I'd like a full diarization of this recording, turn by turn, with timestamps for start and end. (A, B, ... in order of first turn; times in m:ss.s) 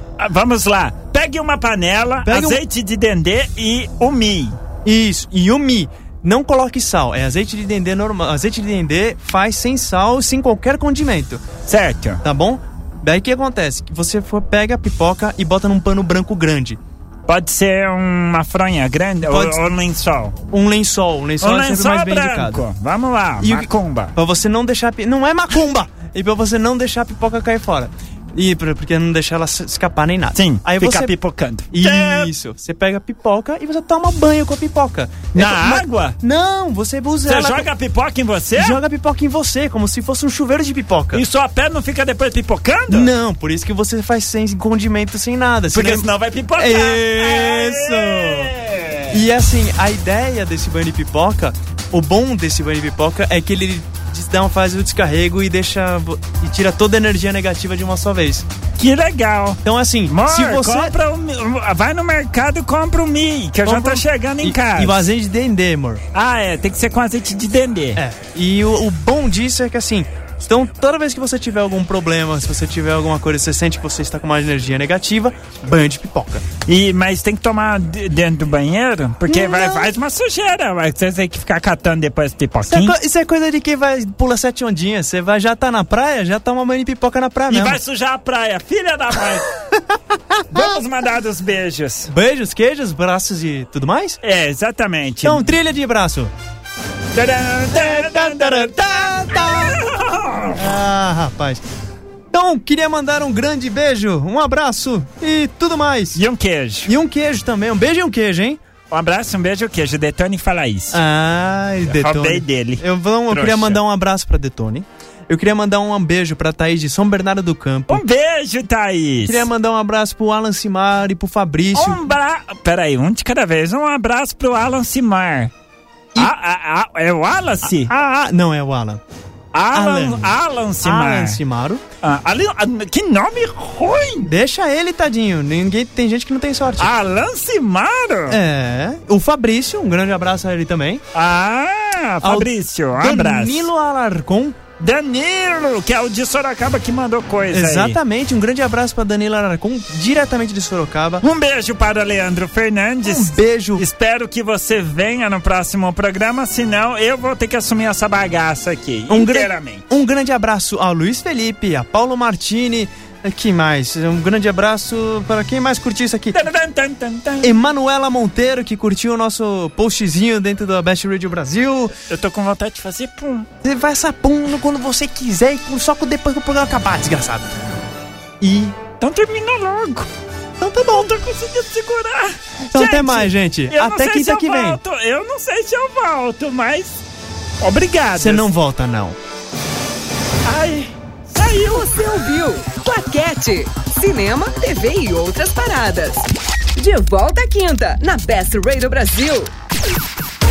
0:00.2-0:04.6 A
0:02.2-0:02.6 B
0:04.8-0:11.4 B
0:11.7-0:12.2 A
0:12.2-0:16.8 B
0:17.3-0:20.4 A
0:19.2-0:19.6 B
0:20.5-0:22.6 B
0:21.4-0:24.2 A
0:23.4-0:31.1 B
0:30.3-0:32.3 A
0:31.7-0:37.7 B
0:35.3-0:36.2 A
0:37.3-0:38.8 A
0:38.6-0:41.2 B
0:41.1-0:43.1 A
0:42.9-0:48.5 B
0:45.7-0:49.2 A
0:49.1-0:58.5 B
0:58.8-1:05.0 A
0:59.6-1:00.9 B
1:03.6-1:06.0 B
1:06.1-1:08.0 A
1:08.0-1:16.4 B
1:16.7-1:23.0 A
1:19.3-1:20.0 B
1:22.6-1:27.8 B
1:27.5-1:29.5 A
1:29.7-1:30.8 B
1:30.5-1:32.1 A
1:32.1-1:34.2 B
1:34.2-1:35.5 A
1:35.2-1:36.3 B
1:37.1-1:40.7 A
1:37.7-1:39.8 B
1:40.6-1:41.6 B
1:42.3-1:46.2 B
1:46.2-1:46.9 A
1:46.9-1:48.6 B
1:48.9-1:51.0 A
1:50.9-1:58.0 B
1:51.8-1:53.8 A
1:57.9-1:59.5 A
1:59.2-2:02.1 B
2:01.8-2:05.5 A
2:06.2-2:07.9 A
2:07.6-2:09.0 B
2:09.5-2:11.4 A
2:09.7-2:11.8 B
2:12.0-2:14.3 A
2:14.2-2:16.9 B
2:16.8-2:18.4 A
2:18.3-2:21.0 B
2:21.1-2:23.7 A
2:22.2-2:24.6 B
2:24.8-2:28.0 A
2:27.5-2:31.2 B
2:31.2-2:39.8 A
2:33.0-2:33.9 B
2:39.1-2:46.4 B
2:46.3-2:47.6 A
2:47.4-2:52.0 B
2:52.1-2:53.5 A
2:53.6-2:57.5 B
2:58.4-2:58.8 B
2:59.0-3:00.1 A
3:00.6-3:01.1 B
3:00.9-3:07.0 A
3:02.7-3:04.8 B
3:07.6-3:08.5 A
3:08.2-3:09.2 B
3:10.4-3:12.0 A
3:11.7-3:19.5 C